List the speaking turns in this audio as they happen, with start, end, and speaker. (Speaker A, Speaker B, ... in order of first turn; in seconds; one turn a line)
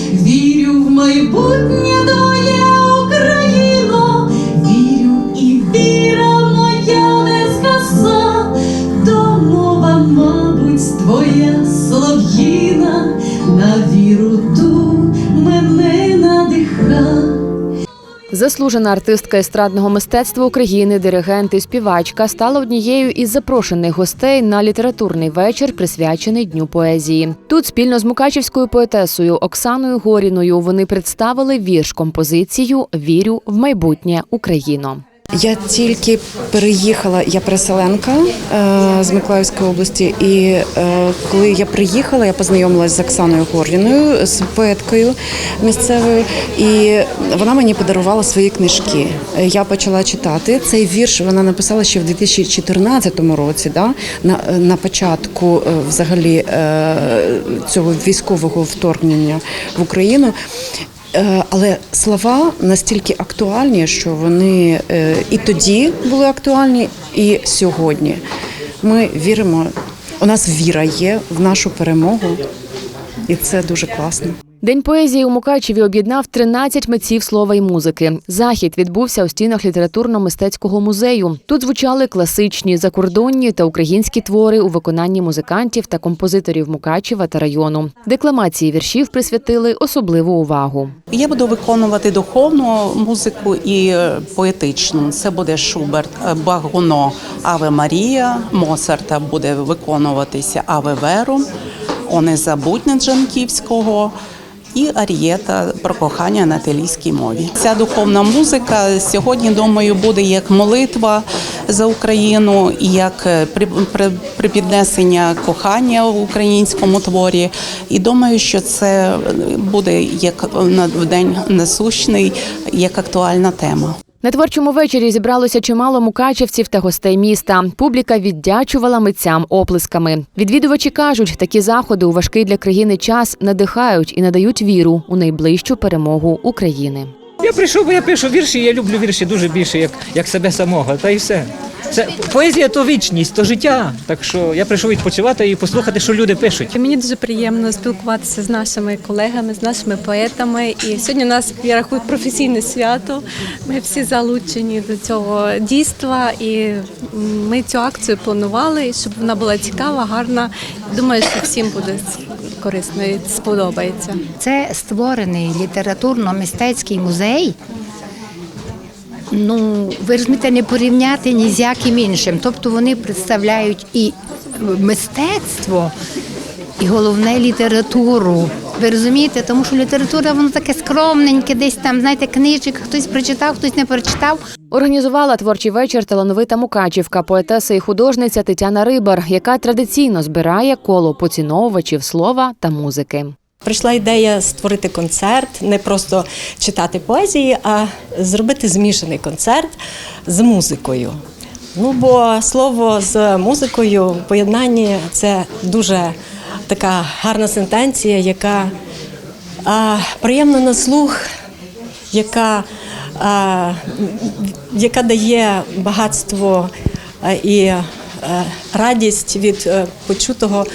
Speaker A: 9.0-12.7
Speaker A: 13.3-14.2
Speaker A: 15.1-16.7
Speaker B: 18.3-35.0
Speaker C: 35.4-60.3
Speaker C: 61.1-68.2
Speaker C: 68.8-72.4
Speaker C: 73.3-74.4
Speaker B: 74.6-91.0
Speaker D: 91.1-101.5
Speaker D: 102.1-104.2
Speaker D: 104.7-124.0
Speaker B: 124.2-137.1
Speaker E: 137.4-146.7
Speaker F: 146.8-164.2
Speaker G: 164.4-167.6
Speaker G: 169.3-175.9
Speaker G: 176.8-184.4
Speaker B: 184.7-193.3
Speaker H: 193.6-199.7
Speaker H: 200.3-201.2
Speaker H: 201.8-206.2
Speaker H: 206.7-208.7
Speaker H: 209.7-211.2
Speaker H: 212.1-212.7
Speaker H: 213.2-216.7
Speaker H: 217.2-220.7